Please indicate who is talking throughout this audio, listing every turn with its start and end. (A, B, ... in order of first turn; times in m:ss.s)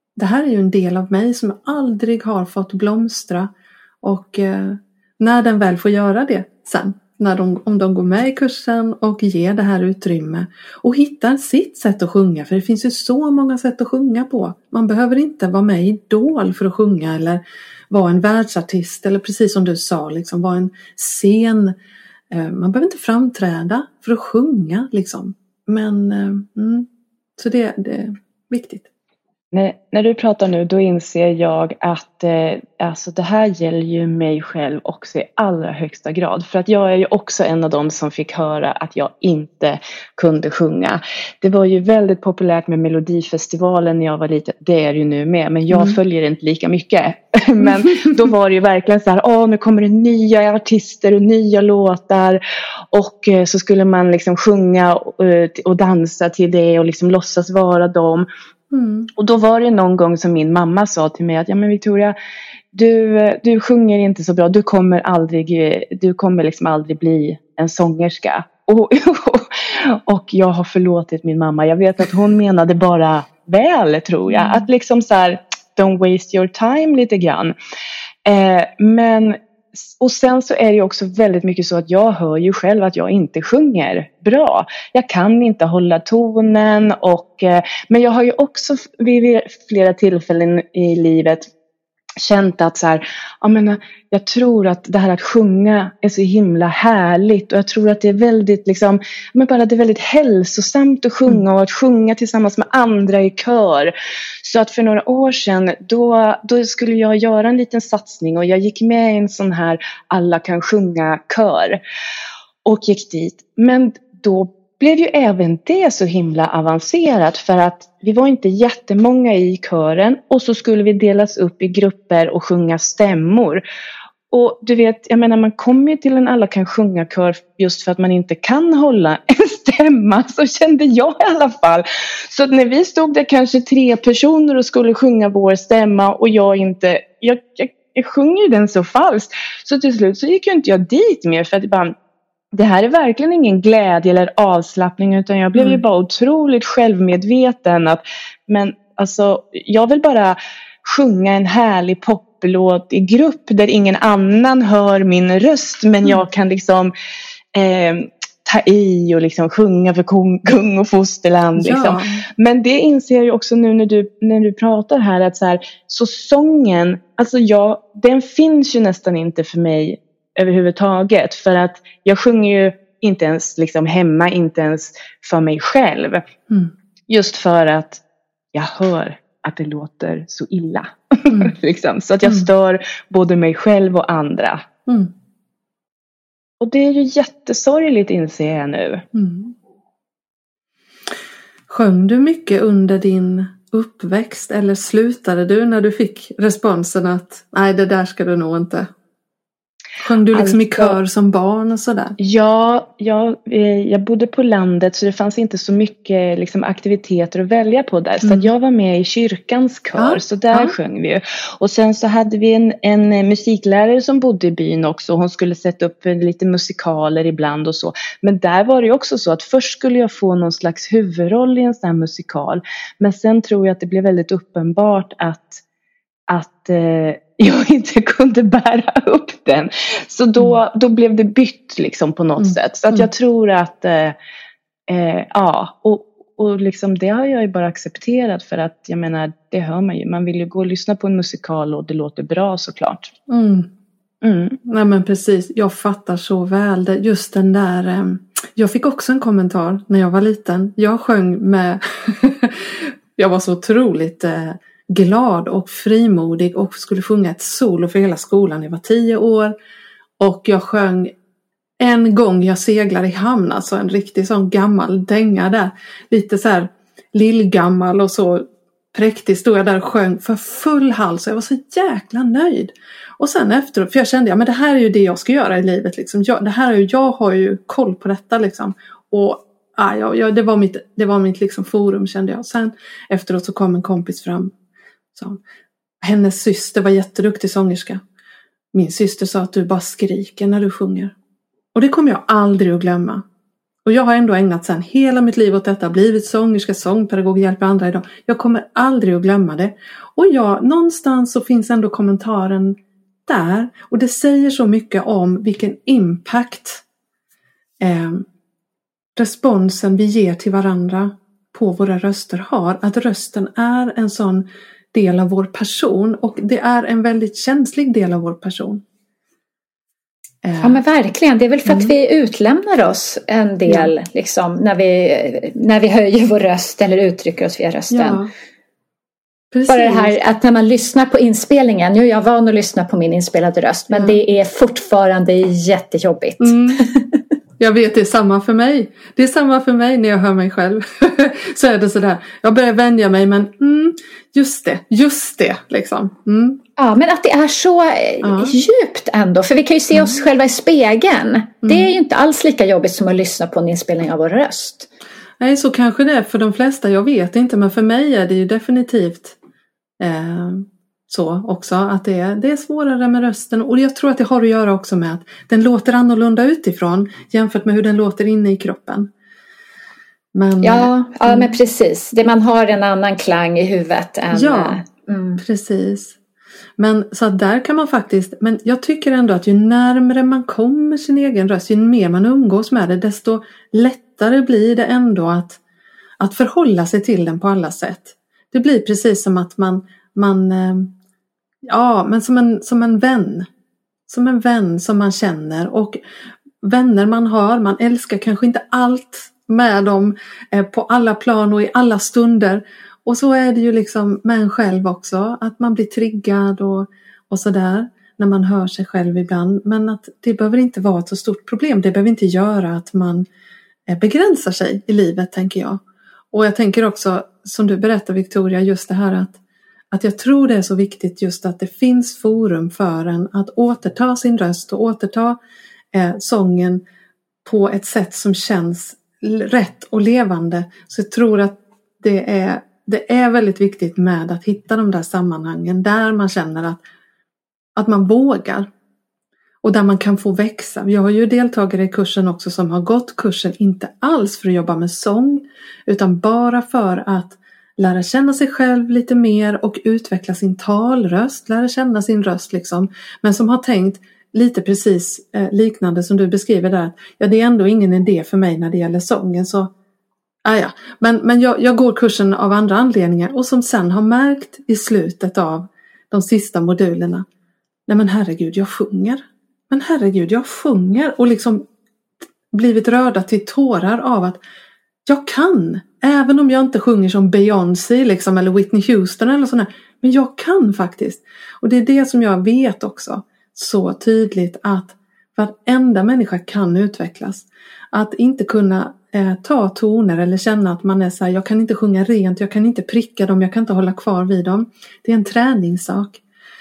0:00.2-0:21.8 A
0:22.3-0:28.9 A
0:29.5-0:52.4 B
0:45.7-0:46.0 A
0:47.6-0:48.1 A
0:52.9-0:58.3 B
0:58.7-0:59.1 A
0:59.2-1:02.2 B
1:02.7-1:17.5 B
1:14.3-1:14.7 A
1:18.2-1:31.5 B
1:32.2-1:43.9 B
1:44.4-1:51.8 B
1:52.6-2:03.6 B
2:04.3-2:21.9 B
2:22.5-2:36.9 B
2:25.6-2:25.8 A
2:37.5-2:56.2 B
2:41.6-2:42.2 A
2:56.5-2:56.7 A
2:57.1-2:58.0 B
2:58.5-3:04.6 B
3:04.9-3:05.1 A
3:06.6-3:09.0 B
3:09.1-3:09.6 A
3:11.7-3:18.9 A
3:20.0-3:22.2 A
3:20.3-3:21.0 B
3:22.2-3:45.6 B
3:28.2-3:28.5 A
3:30.0-3:30.8 A
3:46.3-3:54.2 B
3:52.4-3:53.1 A
3:54.9-4:03.1 B
4:03.3-4:03.7 A
4:04.5-4:19.6 A
4:20.2-4:21.1 A
4:21.8-4:44.5 A
4:45.2-4:45.4 A
4:46.0-4:48.0 A
4:48.7-4:51.1 A
4:51.7-4:53.2 A
4:53.8-5:06.8 A
5:07.8-5:08.3 A
5:09.2-5:18.8 A
5:20.4-5:20.8 A
5:20.6-5:28.2 C
5:21.6-5:22.0 A
5:23.7-5:23.9 A
5:27.9-5:28.3 A
5:29.5-5:30.2 A
5:29.7-5:37.0 C
5:33.9-5:34.2 A
5:36.4-5:36.8 A
5:37.6-5:46.6 A
5:46.8-5:54.9 C
5:48.2-5:48.6 A
5:49.9-5:50.2 A
5:51.6-5:51.9 A
5:55.4-5:59.4 A
6:00.0-6:09.1 A
6:10.3-6:11.5 A
6:10.6-6:15.4 C
6:14.3-6:14.8 A
6:15.4-6:16.2 A
6:16.8-6:25.6 A
6:26.2-6:30.9 A
6:31.7-6:33.5 A
6:34.1-6:36.0 A
6:36.6-6:53.3 A
6:53.9-6:59.4 A
6:59.9-7:05.4 A
7:05.9-7:06.8 A
7:07.4-7:16.8 A
7:17.8-7:18.7 A
7:19.6-7:39.7 A
7:40.4-7:47.3 A
7:47.9-7:51.6 A
7:52.5-7:54.4 A
7:55.1-8:16.2 A